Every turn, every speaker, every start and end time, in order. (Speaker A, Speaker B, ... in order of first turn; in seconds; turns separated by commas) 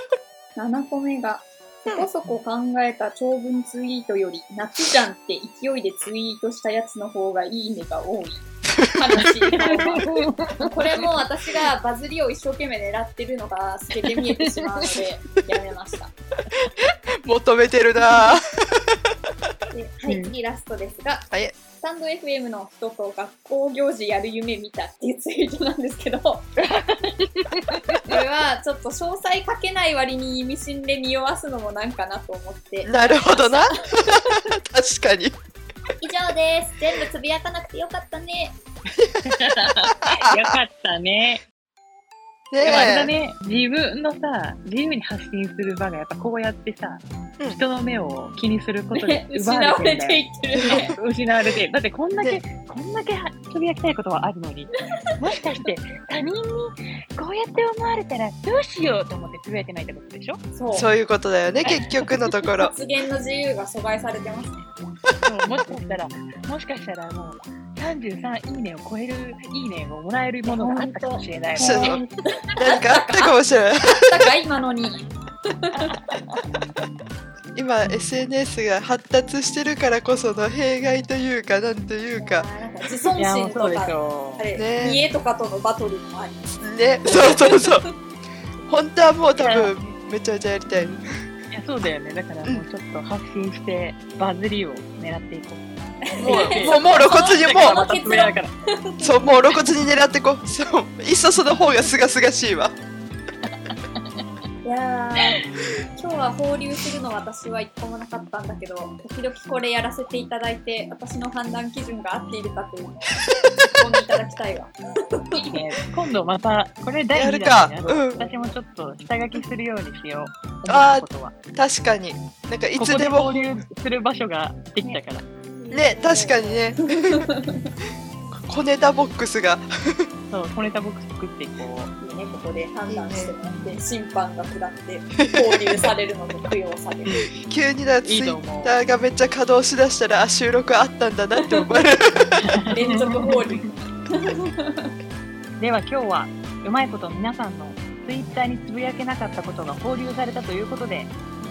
Speaker A: 0.6-10.1, Speaker B: 8.8-10.0, Speaker C: 9.5-11.1, Speaker A: 10.6-16.1, Speaker C: 14.1-14.9, Speaker B: 17.3-18.4, Speaker A: 19.7-21.3, Speaker C: 20.1-20.3, Speaker B: 21.3-21.6, Speaker A: 21.8-26.5, Speaker C: 27.5-28.1, Speaker A: 28.1-33.8, Speaker B: 32.9-35.4, Speaker A: 36.0-38.6, Speaker C: 39.3-41.4, Speaker B: 42.5-43.1, Speaker C: 42.6-60.4, Speaker A: 48.9-51.0, Speaker B: 52.2-52.4, Speaker A: 60.5-60.9, Speaker B: 60.7-62.7, Speaker A: 62.6-64.7, Speaker C: 65.2-72.0, Speaker A: 70.5-73.4, Speaker B: 71.6-72.0, Speaker B: 72.6-74.2, Speaker A: 73.9-75.0, Speaker C: 74.8-75.1, Speaker A: 75.7-75.9, Speaker C: 75.7-76.4, Speaker B: 77.5-82.5, Speaker C: 77.8-78.1, Speaker A: 82.1-86.4, Speaker C: 83.2-84.5, Speaker B: 84.6-85.0, Speaker B: 86.5-87.8, Speaker A: 87.0-87.9, Speaker B: 88.7-91.0, Speaker C: 89.4-89.7, Speaker C: 90.7-91.0, Speaker C: 91.5-98.5, Speaker A: 96.1-99.2, Speaker B: 96.2-97.8, Speaker B: 99.0-102.8, Speaker A: 104.6-105.4, Speaker A: 106.0-113.1, Speaker A: 113.8-115.7, Speaker C: 115.3-121.4, Speaker B: 117.1-118.2, Speaker A: 118.2-118.5, Speaker B: 120.7-123.5, Speaker C: 122.8-125.3, Speaker A: 125.6-127.7, Speaker B: 125.7-127.3, Speaker B: 128.5-130.1, Speaker C: 130.3-131.9, Speaker A: 132.0-137.3, Speaker B: 132.9-133.4, Speaker C: 133.5-133.8, Speaker C: 137.1-137.3, Speaker B: 137.2-142.7, Speaker C: 138.0-138.7, Speaker A: 141.4-141.7, Speaker C: 142.5-143.7, Speaker A: 142.7-144.9, Speaker C: 145.6-151.1